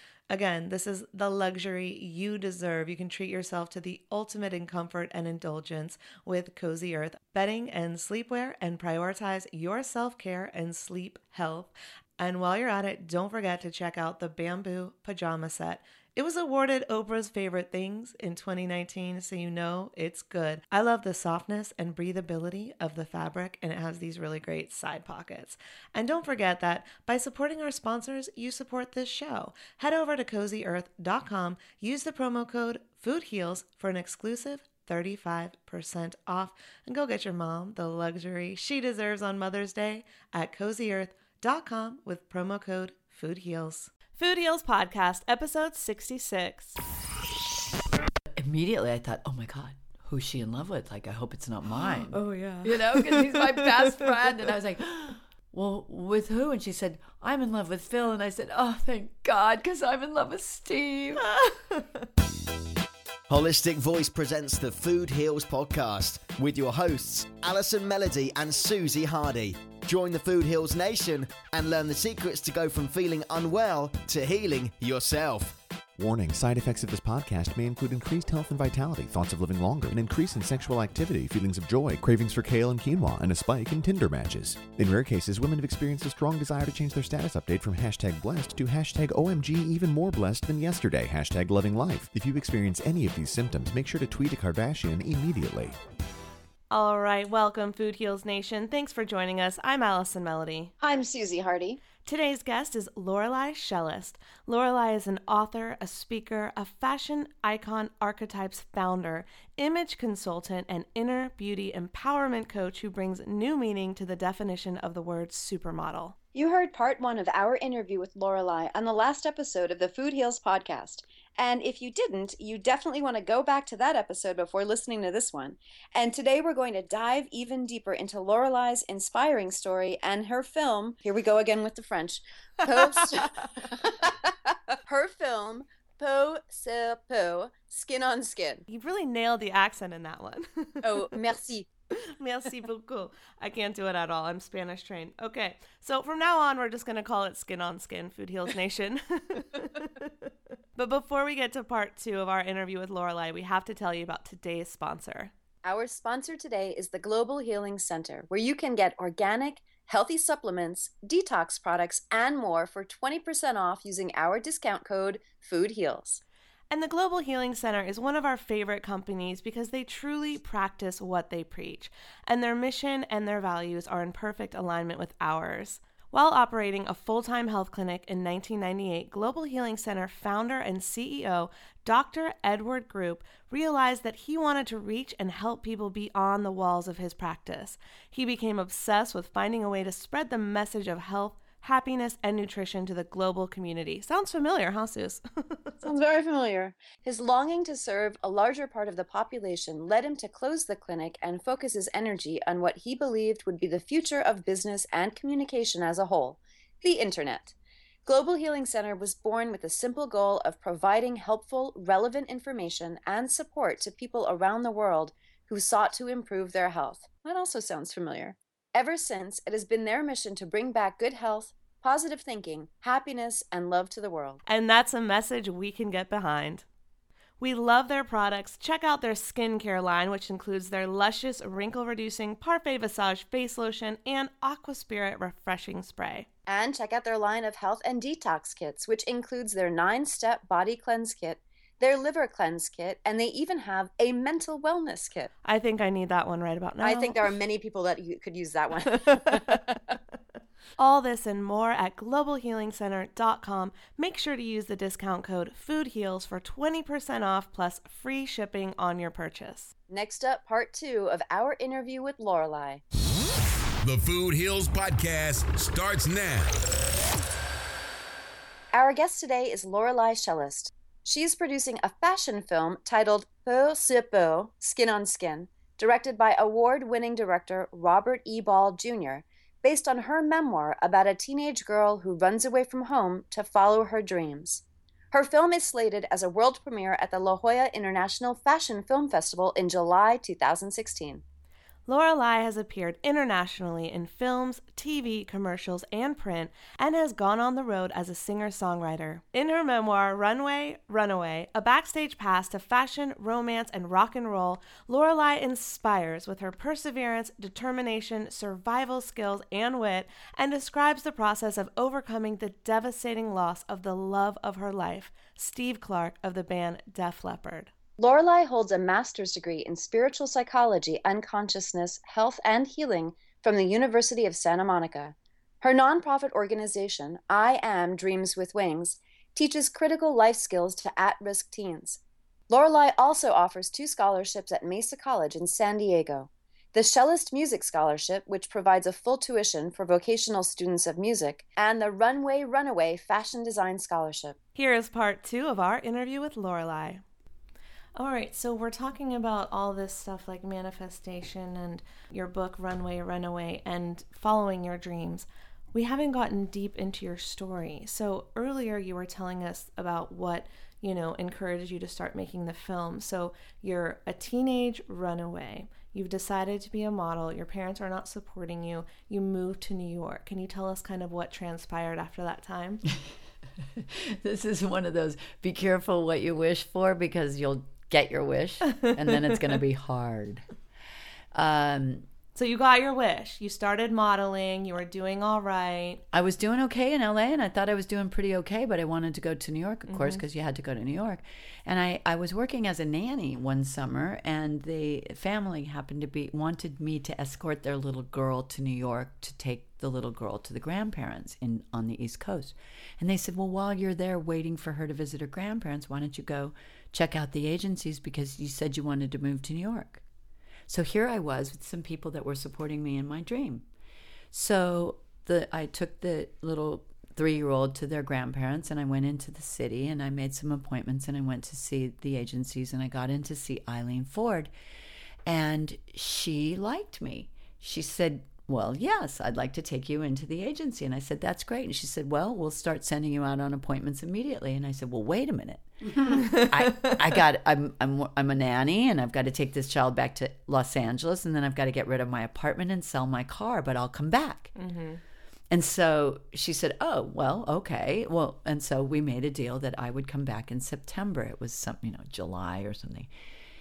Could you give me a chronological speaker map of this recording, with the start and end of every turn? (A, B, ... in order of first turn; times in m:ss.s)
0:00.3-0:46.8 A
0:48.3-1:01.3 B
0:52.1-0:53.8 A
1:01.3-1:01.8 A
1:03.3-1:15.6 C
1:16.0-1:35.8 D
1:36.7-1:40.7 A
1:40.8-1:41.8 E
1:42.0-1:56.2 A
1:56.3-2:18.6 E
2:18.7-2:21.1 A
2:20.8-2:21.7 E
2:21.9-2:30.1 A
2:30.8-2:35.3 A
2:35.6-2:46.2 E
2:46.7-3:15.8 A
3:15.8-3:27.5 E
3:28.0-3:44.4 E
3:44.5-3:46.7 A
3:47.4-3:56.3 A
3:56.5-4:05.3 E
4:05.4-4:07.3 A
4:06.8-4:09.7 E
4:08.9-4:09.8 A
4:10.8-4:19.7 A
4:19.9-4:22.8 E
4:23.8-4:26.6 F
4:28.7-4:51.2 E
4:51.9-5:17.7 A
5:18.0-5:44.4 E
5:44.6-5:47.0 A
5:48.0-6:12.8 A
6:13.6-6:20.4 B
6:21.3-6:22.1 B
6:22.4-6:26.0 A
6:26.1-6:50.0 B
6:29.9-6:30.2 A
6:50.7-6:53.6 B
6:54.3-7:04.5 B
7:05.2-7:24.5 B
7:16.2-7:17.0 A
7:24.6-7:25.0 A
7:25.5-7:33.1 B